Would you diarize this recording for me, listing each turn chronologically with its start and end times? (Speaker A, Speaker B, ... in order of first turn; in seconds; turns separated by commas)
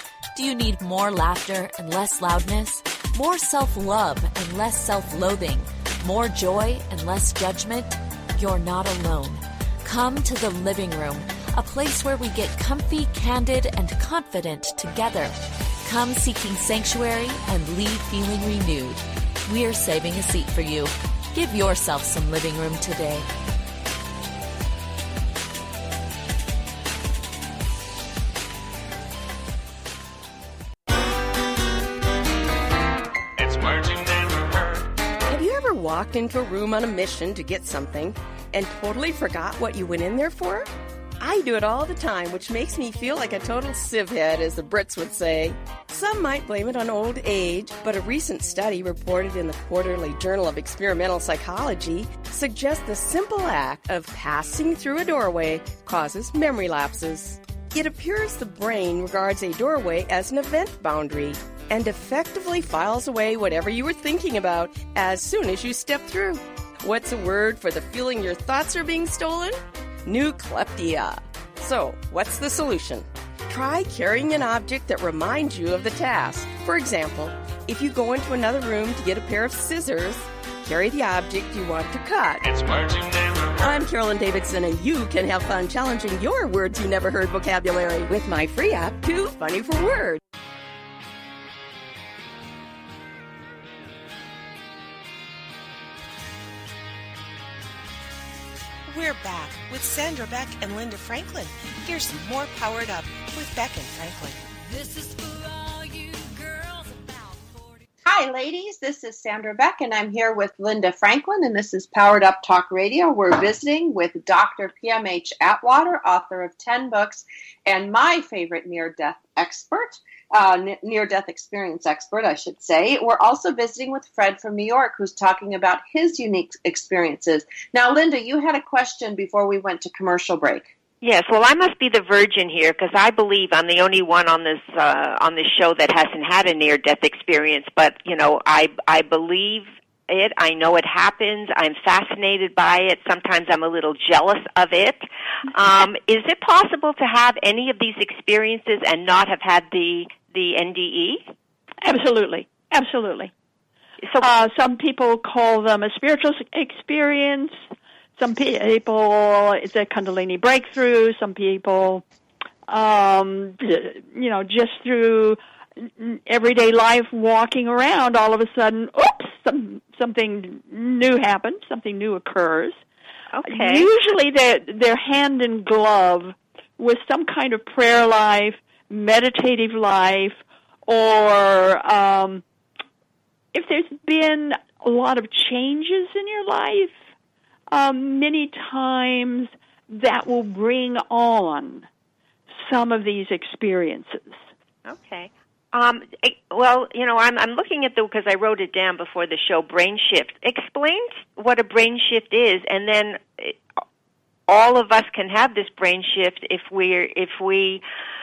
Speaker A: 0.3-23.2, Speaker B: 33.4-34.8, Speaker C: 35.3-82.4, Speaker B: 82.4-83.8, Speaker C: 83.6-90.2, Speaker D: 98.9-104.4, Speaker E: 104.6-107.8, Speaker F: 108.0-130.7, Speaker G: 131.0-151.2, Speaker H: 151.8-153.3, Speaker H: 154.2-157.6, Speaker H: 158.2-162.0, Speaker H: 162.7-172.8, Speaker G: 173.3-173.9, Speaker H: 173.5-182.4, Speaker H: 183.5-186.9, Speaker H: 187.7-191.9, Speaker H: 192.6-194.4, Speaker G: 194.8-203.6, Speaker G: 204.5-207.8